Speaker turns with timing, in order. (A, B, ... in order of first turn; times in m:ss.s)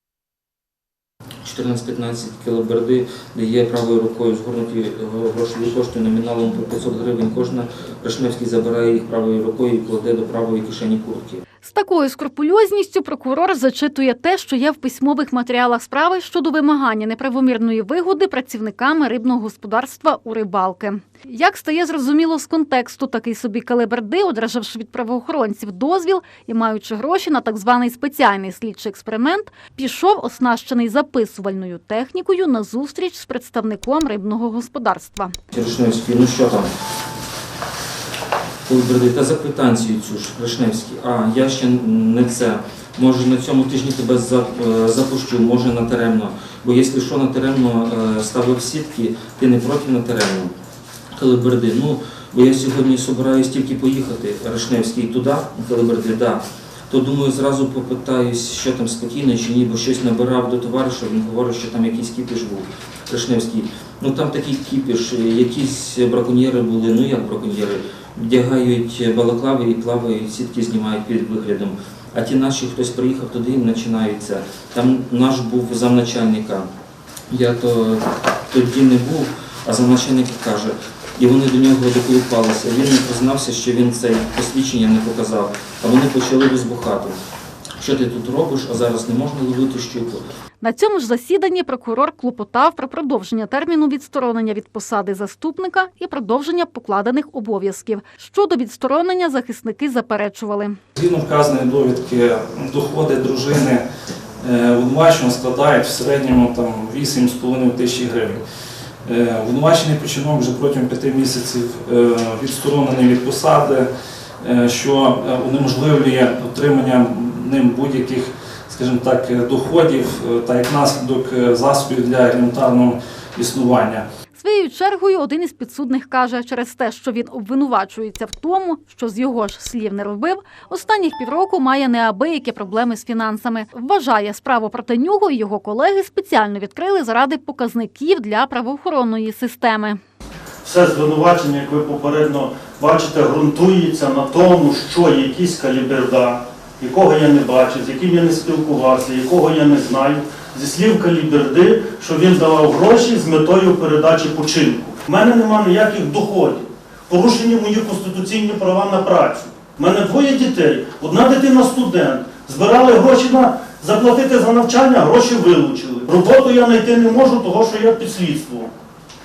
0:01.4-0:11.4 A
0:11.6-0:35.4 B
0:35.5-0:36.7 A
0:38.7-0:50.5 A
0:51.2-1:16.7 A
1:17.3-1:27.2 A
1:27.8-1:30.2 A
1:30.6-1:40.8 B
1:41.0-1:43.8 C
1:44.4-1:48.4 C
1:49.1-1:53.9 C
1:54.4-2:04.0 C
2:04.4-2:20.0 B
2:20.6-2:48.7 D